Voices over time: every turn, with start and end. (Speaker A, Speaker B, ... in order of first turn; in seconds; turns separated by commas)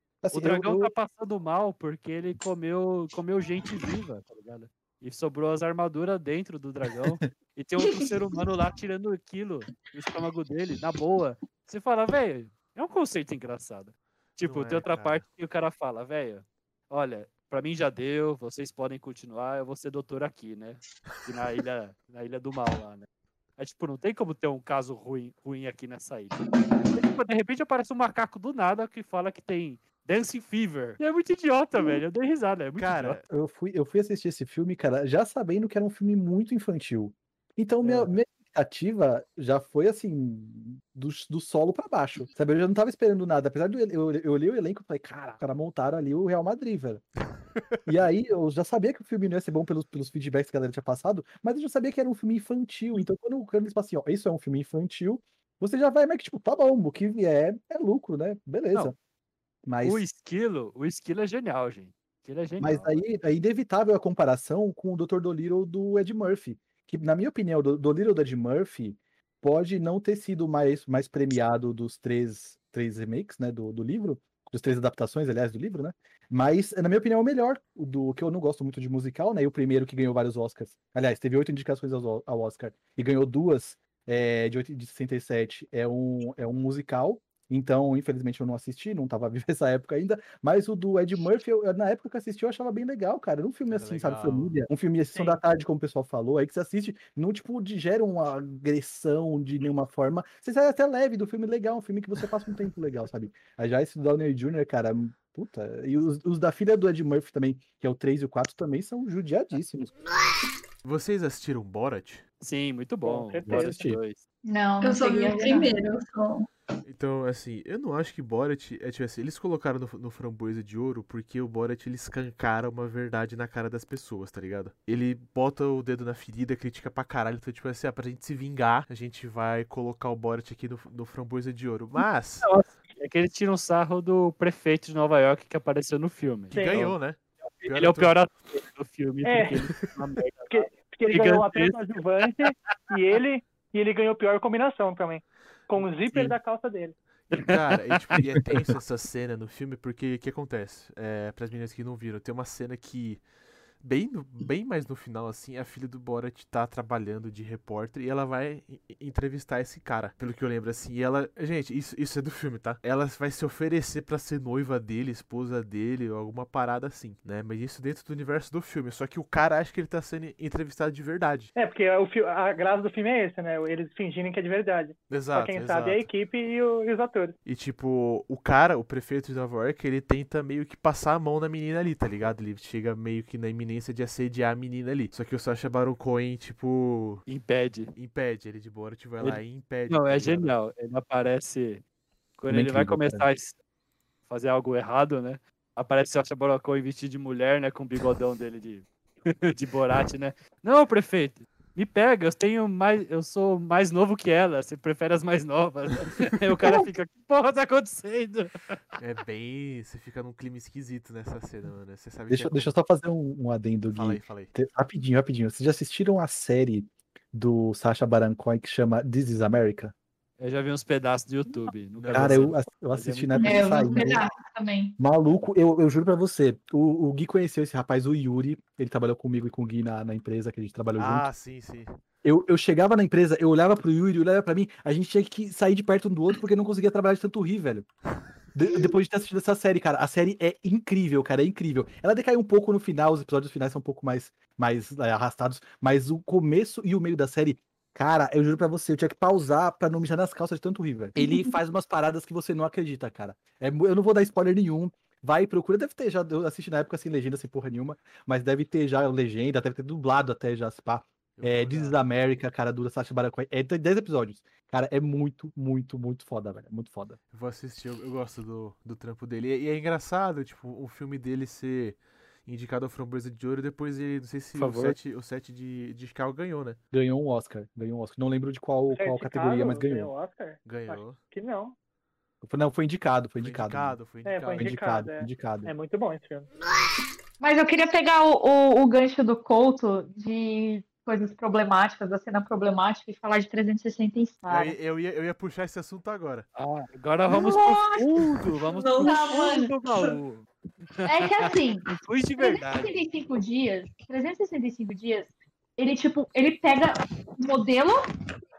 Speaker A: 0.2-0.9, Speaker B: 0.3-33.2, Speaker C: 14.4-15.2, Speaker C: 32.8-33.2, Speaker A: 33.3-47.0, Speaker B: 37.8-38.1, Speaker A: 47.9-58.9, Speaker A: 59.6-60.0, Speaker B: 59.8-63.0, Speaker A: 62.6-109.9, Speaker C: 93.7-94.5, Speaker D: 95.1-95.4, Speaker C: 110.8-112.2, Speaker B: 112.4-114.2, Speaker D: 113.0-113.9, Speaker A: 113.5-114.0, Speaker E: 114.4-115.7, Speaker F: 114.8-116.5, Speaker C: 116.8-132.5, Speaker B: 132.0-137.0, Speaker D: 136.5-136.9, Speaker C: 136.5-138.1, Speaker B: 137.6-141.9, Speaker D: 139.2-139.6, Speaker D: 140.5-146.9, Speaker B: 145.8-146.3, Speaker C: 147.3-153.2, Speaker C: 153.8-171.5, Speaker D: 171.6-177.3, Speaker C: 175.1-176.1, Speaker C: 177.4-187.3, Speaker B: 187.3-187.9, Speaker C: 187.9-190.5, Speaker B: 189.2-191.8, Speaker B: 192.4-193.6, Speaker A: 192.5-193.3, Speaker B: 194.3-208.8, Speaker C: 209.0-212.7, Speaker A: 212.3-219.9, Speaker C: 213.9-214.5, Speaker B: 220.4-223.8, Speaker C: 222.0-222.5, Speaker A: 222.1-224.2, Speaker E: 223.3-225.0, Speaker A: 225.0-231.3, Speaker C: 231.0-232.0, Speaker A: 232.2-237.9, Speaker A: 238.5-267.2, Speaker C: 261.4-262.0, Speaker C: 267.3-276.8, Speaker B: 274.5-274.9, Speaker A: 276.9-280.1, Speaker D: 278.9-281.8, Speaker C: 280.6-281.2, Speaker A: 282.4-284.0, Speaker C: 283.4-284.8, Speaker D: 284.2-286.5, Speaker A: 284.5-285.7, Speaker E: 287.4-294.8, Speaker C: 294.5-296.5, Speaker B: 296.6-303.0, Speaker E: 297.3-298.1, Speaker C: 298.1-298.5, Speaker F: 298.7-300.1, Speaker E: 299.0-299.7, Speaker E: 301.0-308.1